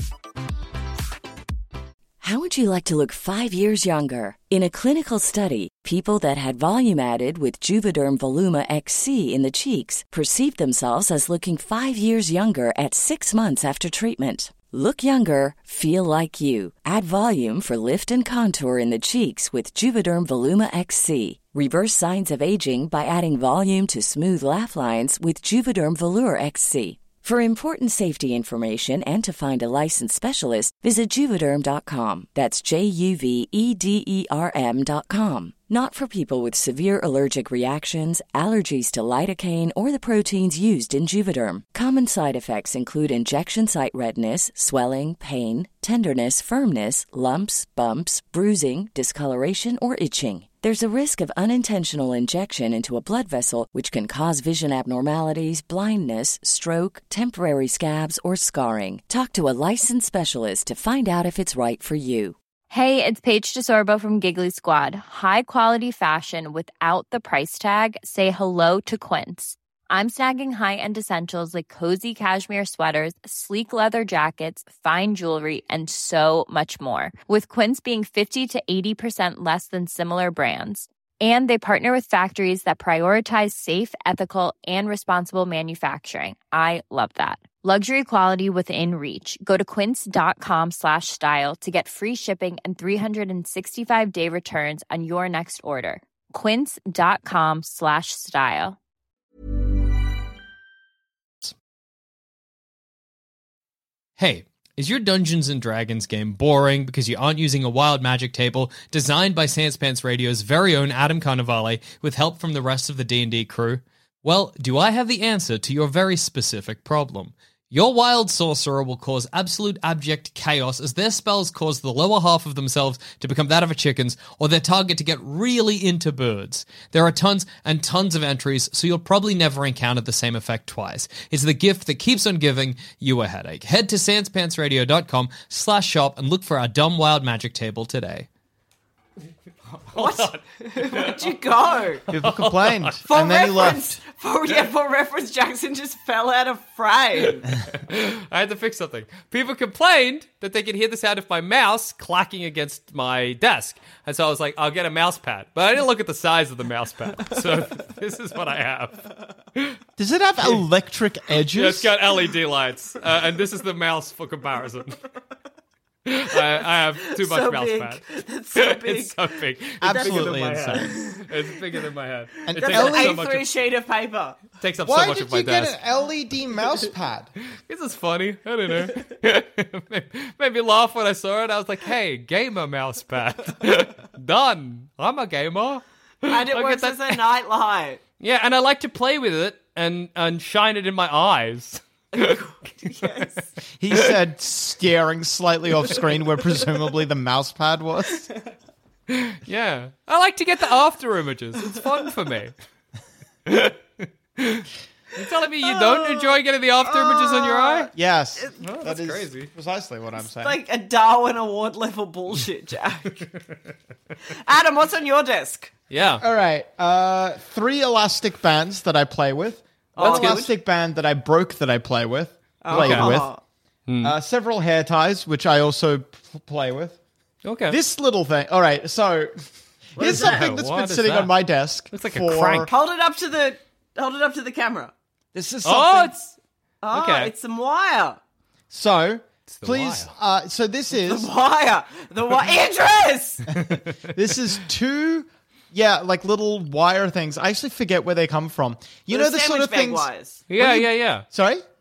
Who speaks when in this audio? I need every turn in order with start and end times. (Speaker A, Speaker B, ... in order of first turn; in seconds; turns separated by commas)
Speaker A: 2.2-62.4, Speaker B: 62.7-98.8, Speaker C: 104.2-138.3, Speaker C: 139.8-141.4, Speaker D: 139.9-142.0, Speaker C: 142.1-143.0, Speaker E: 142.1-144.0, Speaker D: 143.1-147.5, Speaker C: 147.6-159.8, Speaker E: 160.0-161.9, Speaker C: 161.5-165.0, Speaker C: 166.1-168.0, Speaker D: 167.2-169.2, Speaker C: 168.5-173.5, Speaker E: 169.8-170.9, Speaker D: 169.8-171.4, Speaker E: 172.4-173.2, Speaker D: 172.5-174.5, Speaker C: 174.6-175.8, Speaker E: 174.8-177.3, Speaker C: 177.7-187.2, Speaker D: 186.3-188.0, Speaker C: 188.2-192.4, Speaker D: 192.1-193.4, Speaker E: 193.8-198.3, Speaker C: 199.1-202.5, Speaker C: 203.4-207.9, Speaker D: 205.7-208.5, Speaker E: 207.9-210.6, Speaker C: 208.6-209.5, Speaker D: 210.2-213.2, Speaker D: 214.3-215.7, Speaker C: 215.9-216.2, Speaker E: 216.2-223.3, Speaker C: 219.9-220.4, Speaker D: 220.0-220.5, Speaker D: 222.6-223.4, Speaker C: 222.7-223.2, Speaker C: 223.9-224.1, Speaker E: 224.0-227.0, Speaker C: 227.4-227.8, Speaker E: 227.7-229.4, Speaker E: 229.9-232.7, Speaker D: 230.0-230.4, Speaker C: 230.0-231.3, Speaker C: 231.9-232.7, Speaker D: 232.7-234.9, Speaker E: 235.3-236.1, Speaker C: 235.6-236.3, Speaker D: 236.8-238.2, Speaker C: 236.9-237.3, Speaker E: 238.7-241.3, Speaker C: 239.5-240.1, Speaker D: 241.0-243.4, Speaker E: 243.5-251.6, Speaker D: 249.1-250.4, Speaker C: 250.5-251.2